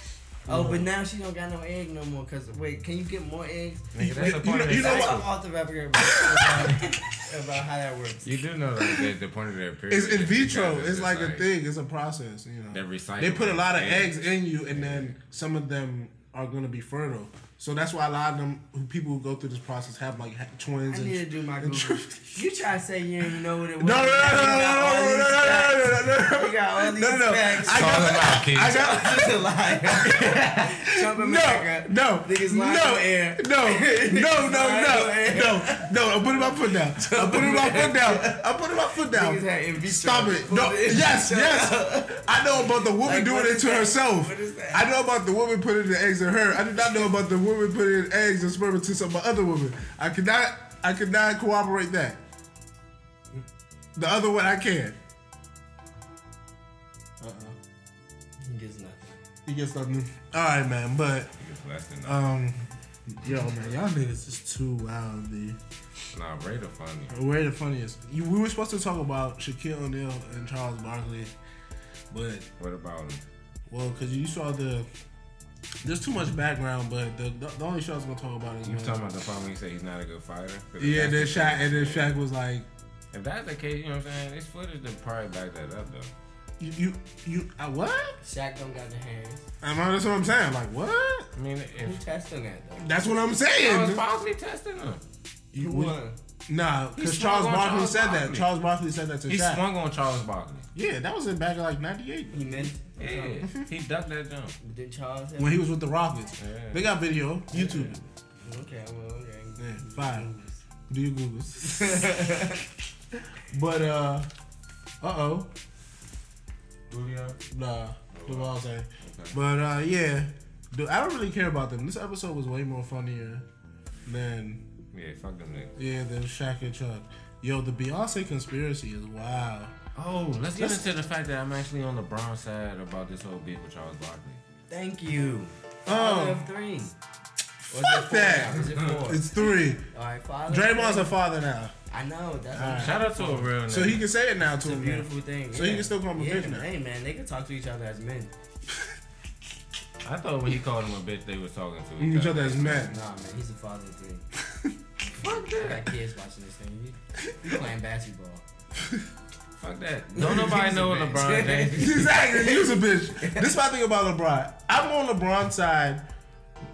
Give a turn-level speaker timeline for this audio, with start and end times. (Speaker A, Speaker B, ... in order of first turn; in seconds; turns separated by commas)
Speaker A: 0.5-3.9, Speaker B: 0.5-0.9, Speaker C: 3.9-5.3, Speaker B: 4.0-5.3, Speaker A: 4.7-8.3, Speaker B: 6.0-6.9, Speaker C: 8.2-11.4, Speaker B: 9.9-22.4, Speaker C: 12.7-14.2, Speaker C: 14.7-15.1, Speaker A: 20.9-38.5, Speaker B: 23.8-52.2, Speaker C: 27.7-28.8, Speaker A: 39.0-44.9, Speaker B: 53.9-55.0, Speaker B: 57.2-57.6, Speaker A: 58.4-59.2, Speaker B: 59.4-61.3, Speaker C: 61.4-62.2, Speaker B: 62.0-65.6, Speaker C: 66.1-67.2, Speaker B: 67.1-71.3, Speaker B: 72.1-72.5, Speaker C: 72.6-73.2, Speaker B: 73.7-74.9, Speaker B: 75.8-79.1, Speaker C: 78.7-82.1, Speaker B: 80.8-82.7, Speaker C: 83.1-86.1, Speaker B: 86.6-88.2, Speaker A: 88.2-89.5, Speaker B: 89.6-91.3, Speaker C: 91.3-92.0, Speaker A: 91.8-92.9, Speaker B: 92.8-94.0, Speaker C: 93.6-95.0, Speaker B: 95.5-96.0, Speaker A: 95.5-96.2, Speaker B: 96.5-99.6, Speaker C: 97.0-98.5, Speaker C: 99.3-100.7, Speaker B: 100.7-102.7, Speaker A: 102.3-103.5, Speaker C: 103.0-104.5, Speaker B: 103.4-103.7, Speaker A: 104.6-105.6, Speaker B: 105.4-108.0, Speaker C: 106.4-106.8, Speaker A: 107.5-110.6, Speaker B: 109.6-110.3, Speaker B: 110.9-112.1, Speaker A: 111.6-112.6, Speaker B: 113.4-114.3, Speaker B: 115.0-115.5, Speaker C: 116.9-117.4, Speaker B: 117.5-123.5, Speaker C: 118.1-119.4, Speaker B: 124.0-124.7, Speaker C: 124.9-125.7, Speaker B: 125.8-129.7, Speaker C: 129.9-134.4, Speaker B: 130.6-130.8, Speaker A: 134.7-136.9, Speaker B: 135.8-136.5, Speaker B: 137.7-139.8, Speaker A: 137.7-141.1, Speaker B: 140.5-141.7, Speaker A: 141.9-143.5, Speaker B: 142.5-143.0, Speaker C: 142.7-144.0, Speaker B: 143.7-146.7, Speaker A: 144.5-148.3, Speaker C: 150.0-152.9, Speaker B: 152.0-153.0, Speaker A: 152.8-154.3, Speaker C: 155.2-155.9, Speaker A: 155.2-158.4, Speaker B: 157.3-157.6, Speaker C: 159.6-162.1, Speaker A: 160.1-163.5, Speaker B: 161.7-166.0